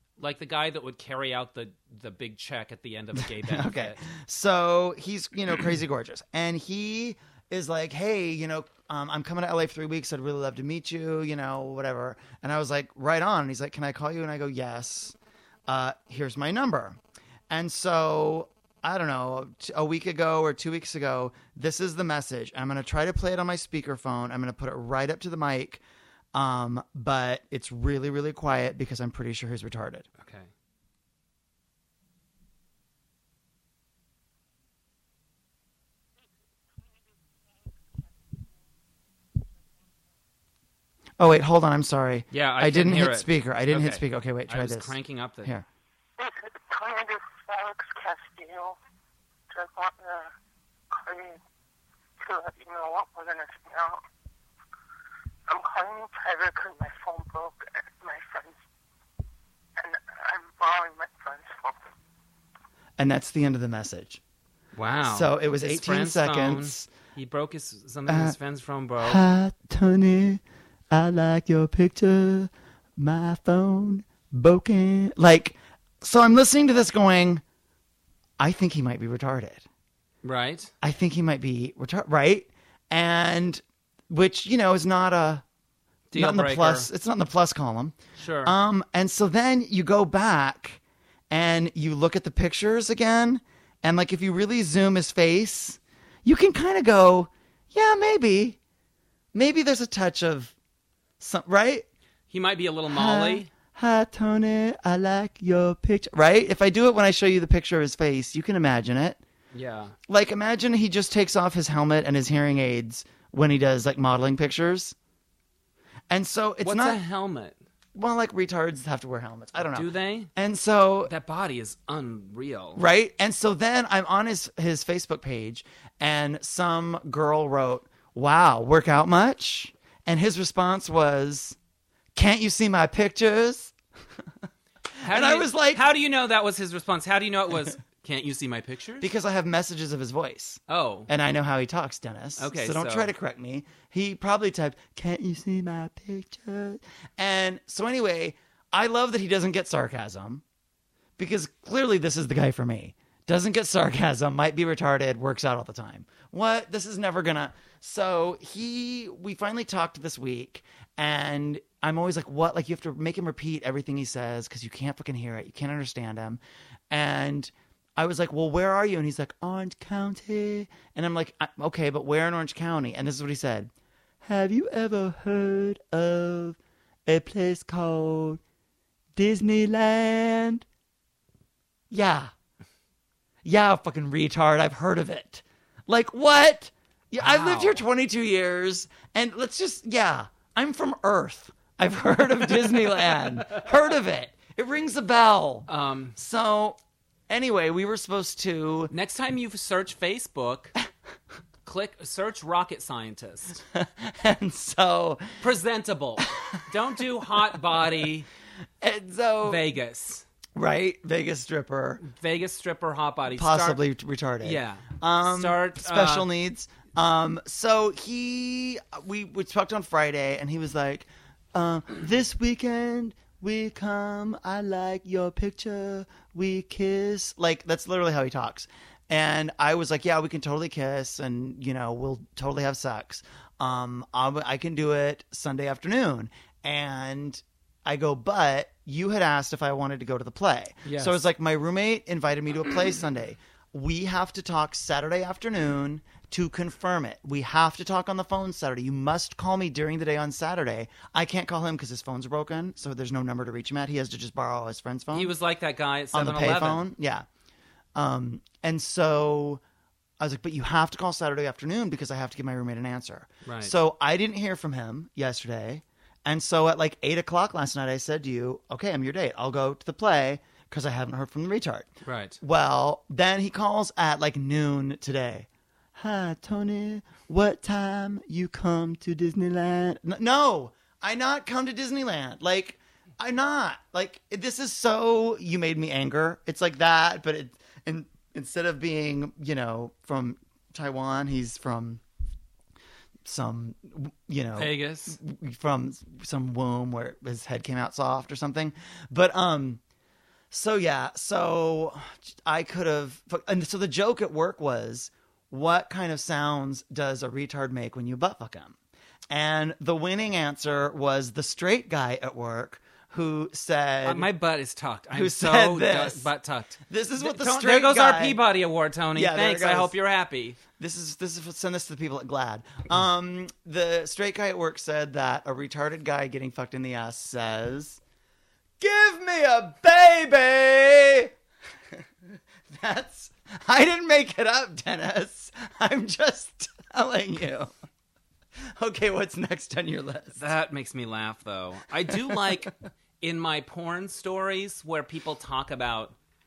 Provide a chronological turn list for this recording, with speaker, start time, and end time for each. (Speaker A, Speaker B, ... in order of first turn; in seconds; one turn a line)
Speaker A: 0.2-4.0
Speaker B: 3.2-17.0
Speaker B: 17.5-25.8
Speaker B: 26.3-30.1
Speaker A: 30.2-30.5
Speaker B: 41.2-45.7
Speaker A: 42.3-45.5
Speaker C: 46.2-48.8
Speaker C: 49.5-50.3
Speaker C: 50.9-51.4
Speaker C: 52.2-54.0
Speaker C: 55.5-58.6
Speaker C: 59.8-61.8
Speaker B: 63.0-64.2
Speaker A: 64.8-69.2
Speaker B: 65.0-66.9
Speaker B: 68.1-68.3
Speaker B: 69.0-77.4
Speaker B: 78.4-79.6
Speaker A: 80.2-80.7
Speaker B: 80.8-85.4
Speaker A: 86.1-86.9
Speaker B: 86.1-98.6
Speaker A: 88.2-88.5
Speaker B: 99.3-100.5
Speaker B: 101.2-101.9
Speaker A: 102.3-103.5
Speaker B: 102.9-109.2
Speaker A: 109.5-110.0
Speaker B: 110.1-115.0
Speaker B: 116.1-117.0
Speaker A: 116.6-117.6
Speaker B: 118.0-121.1
Speaker A: 119.7-120.3
Speaker A: 121.1-122.8
Speaker B: 122.8-131.6
Speaker B: 132.1-133.8
Speaker B: 135.0-135.9
Speaker A: 135.0-139.1
Speaker B: 139.0-150.4
Speaker A: 140.7-141.1
Speaker A: 142.4-143.1
Speaker B: 151.2-173.7
Speaker B: 174.2-178.4
Speaker B: 179.2-180.6
Speaker B: 181.9-182.3
Speaker B: 183.4-196.8
Speaker A: 187.2-187.8
Speaker A: 192.6-193.7
Speaker A: 195.7-196.2
Speaker B: 197.3-198.9
Speaker A: 198.9-200.8
Speaker A: 201.6-203.6
Speaker B: 203.7-205.4
Speaker A: 205.4-208.3
Speaker B: 206.2-208.0
Speaker B: 208.8-209.6
Speaker A: 209.4-210.2
Speaker B: 210.6-212.0
Speaker A: 212.0-213.8
Speaker B: 213.3-255.3
Speaker A: 214.4-216.3
Speaker A: 240.8-241.2
Speaker A: 255.1-256.9
Speaker B: 256.1-257.3
Speaker B: 257.9-259.6
Speaker B: 260.2-292.0
Speaker A: 263.4-263.8
Speaker A: 272.1-272.4
Speaker B: 293.2-299.8
Speaker A: 294.6-295.2
Speaker B: 300.5-308.8
Speaker B: 309.3-314.3
Speaker A: 314.0-320.6
Speaker B: 315.1-316.3
Speaker B: 316.9-318.4
Speaker B: 319.1-320.0
Speaker B: 320.8-328.0
Speaker B: 328.8-331.3
Speaker B: 332.7-337.7
Speaker B: 338.7-340.4
Speaker A: 340.4-346.2
Speaker B: 342.1-342.4